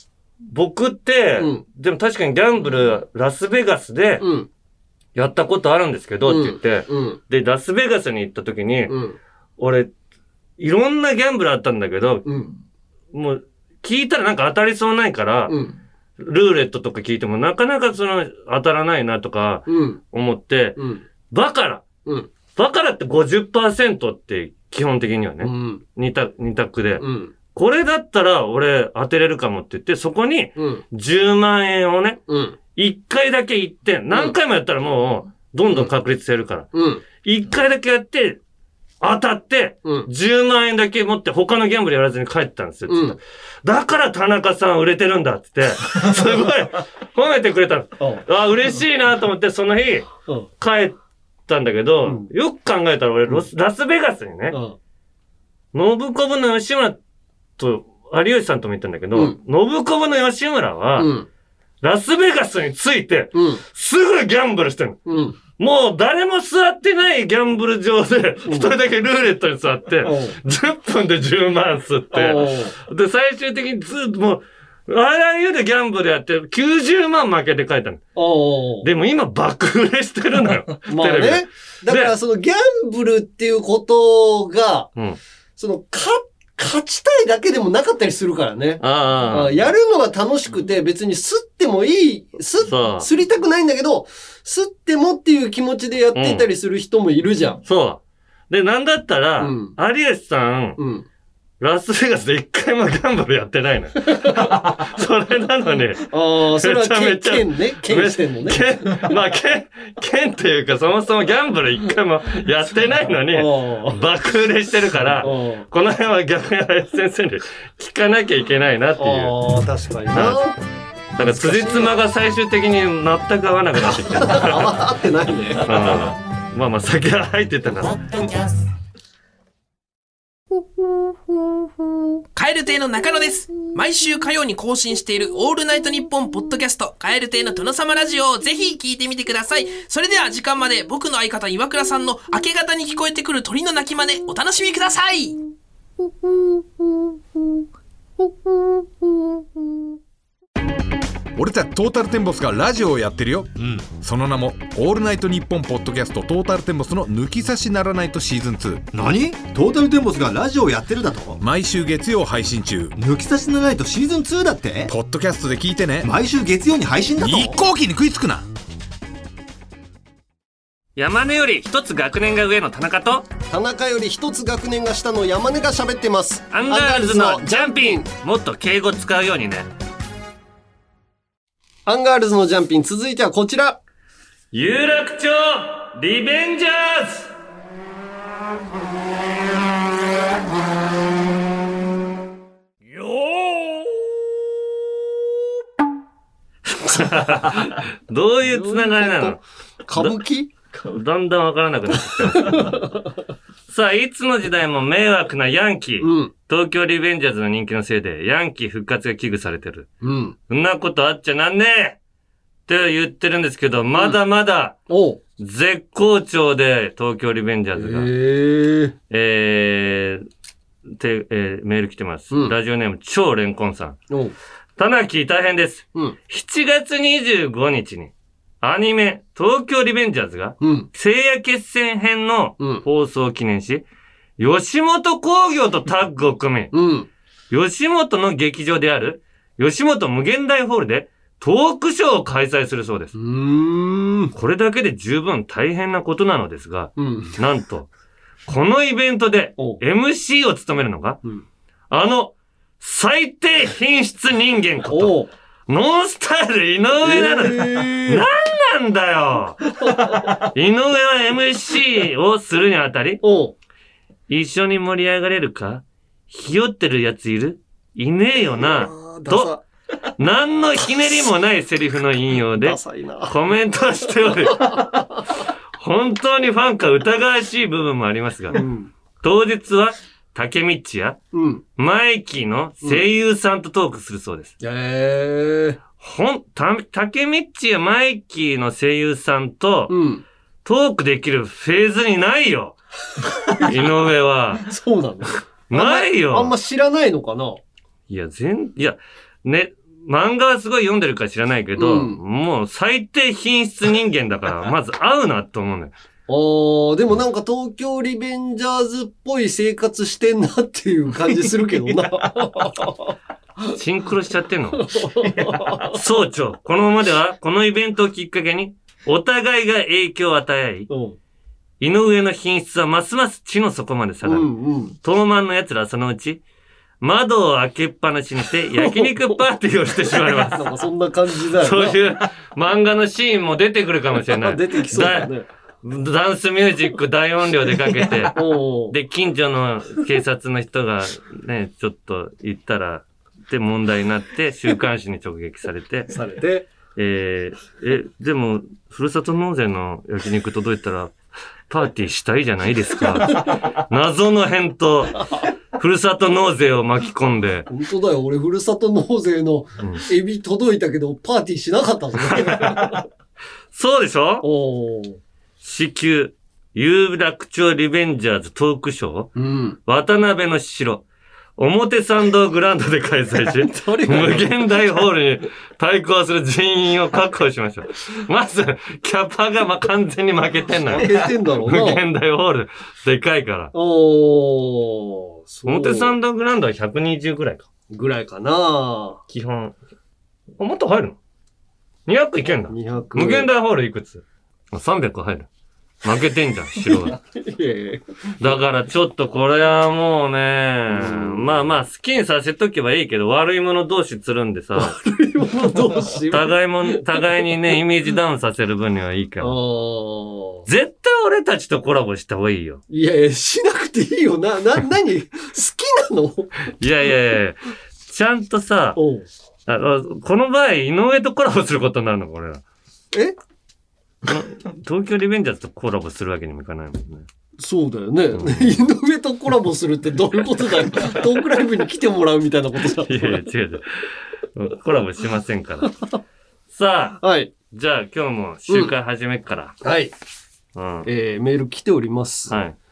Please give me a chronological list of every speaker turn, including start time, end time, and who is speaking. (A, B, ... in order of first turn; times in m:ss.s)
0:00.5-0:04.2 A
0:01.4-0:01.6 B
0:04.2-0:04.5 B
0:05.1-0:09.0 A
0:06.2-0:07.2 B
0:08.9-0:09.2 B
0:09.6-0:09.9 A
0:10.6-0:12.2 A
0:12.2-0:12.5 B
0:13.1-0:15.6 A
0:15.5-0:15.8 B
0:16.2-0:21.8 A
0:19.7-0:20.0 B
0:20.8-0:21.0 B
0:22.0-0:22.3 B
0:22.5-0:32.2 A
0:25.4-0:25.8 B
0:27.0-0:27.3 B
0:30.6-0:30.8 B
0:32.3-0:32.6 B
0:32.7-0:36.7 A
0:36.7-0:37.0 B
0:37.2-0:38.4 A
0:39.0-0:54.6 A
0:42.9-0:43.2 B
0:54.5-0:54.8 B
0:55.7-0:57.0 A
0:57.6-1:01.1 A
1:01.0-1:01.3 B
1:01.8-1:05.0 A
1:03.3-1:03.6 B
1:05.0-1:05.4 B
1:05.6-1:18.0 A
1:08.4-1:08.7 B
1:10.0-1:10.4 B
1:12.1-1:12.7 B
1:18.1-1:18.9 B
1:18.8-1:22.2 A
1:20.9-1:24.9 B
1:25.6-1:37.6 B
1:28.8-1:29.7 A
1:32.6-1:33.1 A
1:36.1-1:36.5 A
1:37.6-1:40.8 A
1:39.4-1:39.8 B
1:40.8-1:41.0 B
1:41.6-1:59.3 A
1:44.1-1:44.5 B
1:46.1-1:49.1 B
1:53.3-1:54.0 B
1:55.2-1:55.6 B
1:59.0-2:00.6 B
2:00.1-2:00.5 A
2:01.2-2:04.8 A
2:01.2-2:01.9 B
2:04.0-2:05.7 B
2:05.6-2:08.2 A
2:12.4-2:25.4 C
2:31.4-2:38.9 D
2:38.9-2:41.4 E
2:41.4-2:42.9 D
2:43.0-2:44.9 E
2:44.9-2:46.1 D
2:46.0-2:47.6 E
2:47.2-2:48.4 D
2:51.0-2:53.2 A
2:53.5-2:58.0 B
2:56.5-2:59.7 A
3:01.8-3:03.8 B
3:04.5-3:07.3 A
3:12.9-3:13.7 A
3:16.7-3:19.4 A
3:18.4-3:20.5 B
3:20.7-3:22.9 A
3:22.2-3:23.1 B
3:23.7-3:29.9 A
3:26.0-3:26.3 B
3:30.0-3:30.4 B
3:30.5-3:32.0 A
3:32.7-3:34.8 A
3:34.9-3:35.2 B
3:35.4-3:38.1 A
3:37.7-3:38.9 B
3:39.1-3:40.2 A
3:40.9-3:44.0 A
3:44.8-3:53.8 A
3:50.6-3:50.9 B
3:54.4-3:56.7 A
3:56.7-3:57.1 B
3:57.5-4:03.1 A
4:03.1-4:04.3 B
4:04.3-4:07.9 A
4:07.0-4:07.4 B
4:08.5-4:11.2 A
4:11.9-4:15.1 A
4:14.9-4:15.3 B
4:15.7-4:19.6 A
4:17.0-4:18.3 B
4:19.8-4:20.3 B
4:20.4-4:23.2 A
4:23.2-4:23.5 B
4:24.3-4:29.5 A
4:28.6-4:29.6 B
4:30.2-4:35.0 A
4:32.6-4:33.3 B
4:34.4-4:35.2 B
4:35.8-4:38.6 A
4:38.5-4:38.9 B
4:39.2-4:41.2 A
4:41.3-4:41.6 B
4:41.8-4:44.5 A
4:44.6-4:45.8 B
4:46.0-4:49.9 A
4:49.9-4:50.2 B
4:50.6-4:52.8 A
4:53.5-4:54.6 A
4:54.6-4:57.6 B
4:55.7-4:56.5 A
4:58.1-5:05.9 A
5:01.8-5:02.2 B
5:06.3-5:13.1 B
5:13.7-5:14.9 A
5:14.7-5:16.0 B
5:15.8-5:20.9 A
5:20.9-5:21.2 B
5:21.8-5:24.5 A
5:24.2-5:24.9 B
5:25.0-5:26.4 A
5:27.0-5:30.7 A
5:28.7-5:29.4 B
5:30.1-5:32.0 B
5:31.6-5:35.3 A
5:34.3-5:35.5 B
5:35.8-5:38.4 A
5:38.3-5:39.0 B
5:38.9-5:46.1 A
5:46.1-5:46.7 B
5:46.9-5:51.1 A
5:51.7-5:57.7 A
5:53.2-5:53.5 B
5:57.7-6:03.0 B
6:02.3-6:03.0 A
6:03.7-6:04.5 A
6:04.4-6:05.2 B
6:05.6-6:09.3 A
6:09.3-6:09.8 B
6:09.8-6:11.0 A
6:11.6-6:23.7 A
6:13.5-6:14.6 B
6:20.9-6:22.0 B
6:23.7-6:26.1 B
6:25.6-6:27.6 A
6:27.9-6:29.2 B
6:29.3-6:29.8 A
6:30.6-6:31.2 A
6:32.1-6:35.5 A
6:32.7-6:33.5 B
6:36.0-6:37.2 A
6:36.8-6:38.5 B
6:38.4-6:45.0 A
6:40.9-6:41.5 B
6:44.7-6:47.0 B
6:46.3-6:49.5 A
6:49.4-6:50.6 B
6:50.6-6:52.8 A
6:52.9-6:56.7 B
6:56.8-6:59.0 A
6:59.0-6:59.3 B
6:59.7-7:02.6 A
7:04.2-7:07.2 A
7:07.6-7:13.4 B
7:08.3-7:08.8 A
7:13.0-7:15.9 A
7:15.8-7:16.1 B
7:16.7-7:17.2 A
7:17.2-7:17.5 B
7:17.7-7:19.7 A
7:19.8-7:20.1 B
7:20.7-7:21.1 A
7:21.0-7:22.6 B
7:22.5-7:22.8 A